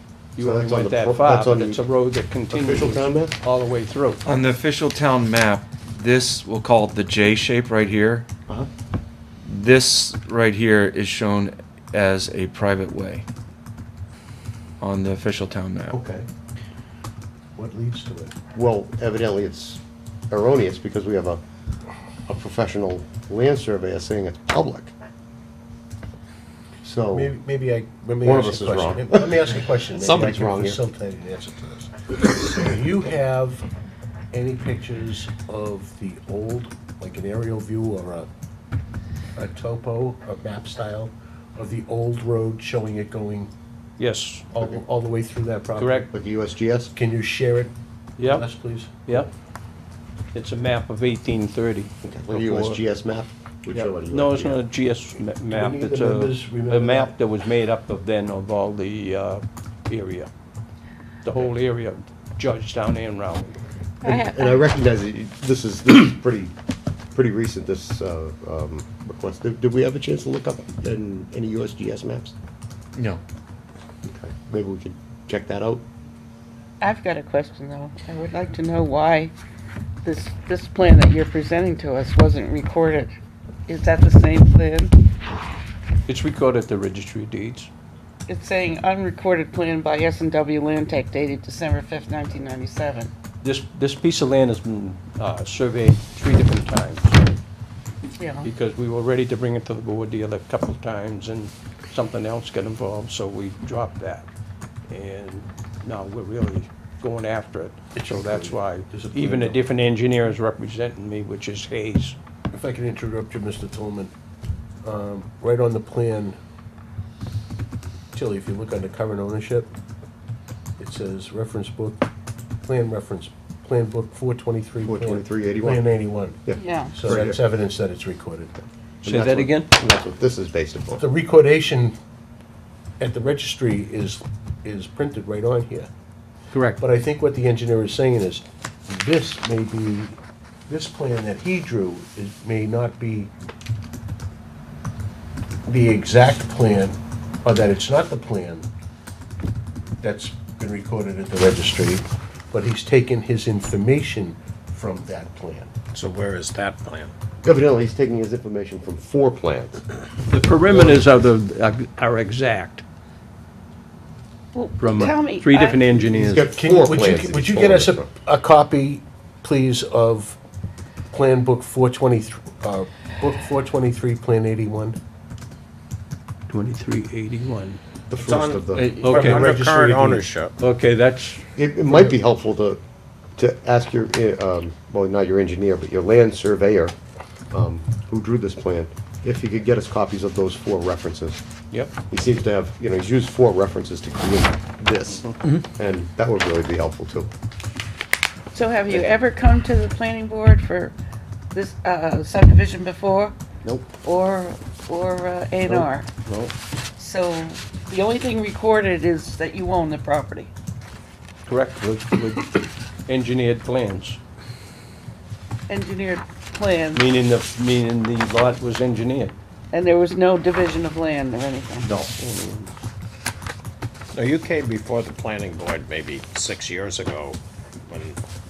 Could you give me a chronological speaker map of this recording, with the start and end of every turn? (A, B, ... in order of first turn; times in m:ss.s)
0:00.4-0:04.3 A
0:00.4-0:01.8 B
0:02.5-0:03.4 B
0:04.3-0:08.3 C
0:09.4-0:13.2 C
0:14.8-0:16.0 C
0:15.9-0:16.3 D
0:17.6-0:18.3 D
0:18.5-0:21.4 B
0:22.3-0:24.9 B
0:26.8-0:27.3 B
0:27.1-0:33.6 D
0:28.2-0:30.8 B
0:34.3-0:38.3 D
0:39.4-0:43.5 D
0:44.0-0:44.5 A
0:44.5-0:46.1 D
0:45.8-0:46.1 A
0:46.1-0:46.9 B
0:46.9-0:49.3 D
0:48.2-0:48.4 A
0:50.3-0:52.8 A
0:52.0-0:54.6 B
0:53.7-1:00.3 A
0:55.5-0:57.1 D
1:01.2-1:03.6 A
1:04.0-1:04.6 E
1:04.0-1:06.6 B
1:07.1-1:12.4 B
1:13.0-1:13.2 C
1:14.0-1:15.8 B
1:16.8-1:19.3 E
1:20.0-1:23.1 E
1:23.7-1:25.0 E
1:26.1-1:27.7 A
1:28.3-1:33.1 E
1:33.4-1:37.3 A
1:38.2-1:38.5 E
1:38.4-1:44.3 A
1:44.9-1:52.2 A
1:48.0-1:49.6 D
1:52.5-1:54.1 D
1:54.8-1:56.4 D
1:58.1-1:59.7 D
2:00.8-2:02.0 D
2:02.6-2:06.4 D
2:04.8-2:05.9 B
2:06.4-2:07.4 B
2:06.5-2:06.9 E
2:06.9-2:08.6 D
2:09.0-2:11.0 B
2:09.0-2:09.7 A
2:11.0-2:12.0 D
2:13.0-2:15.9 D
2:16.5-2:16.8 A
2:16.8-2:23.3 D
2:25.7-2:28.7 D
2:30.0-2:35.7 D
2:35.9-2:37.1 F
2:37.4-2:39.8 B
2:40.3-2:42.8 A
2:40.7-2:41.0 B
2:44.6-2:45.9 E
2:44.8-2:46.6 A
2:46.1-2:48.1 B
2:46.4-2:50.4 D
2:51.1-2:55.0 D
2:56.5-2:57.8 A
2:58.1-2:58.9 B
2:58.2-3:00.6 F
2:59.0-3:00.3 D
2:59.0-2:59.5 A
3:00.6-3:01.5 A
3:01.6-3:02.8 B
3:03.4-3:07.0 B
3:07.5-3:11.4 B
3:12.1-3:17.3 B
3:18.5-3:21.0 E
3:21.5-3:23.4 E
3:23.6-3:23.9 A
3:24.0-3:26.1 E
3:25.7-3:26.5 A
3:27.0-3:30.5 E
3:31.5-3:34.2 A
3:35.7-3:37.0 E
3:36.9-3:39.4 A
3:39.7-3:41.9 E
3:41.8-3:42.8 A
3:44.1-3:48.2 F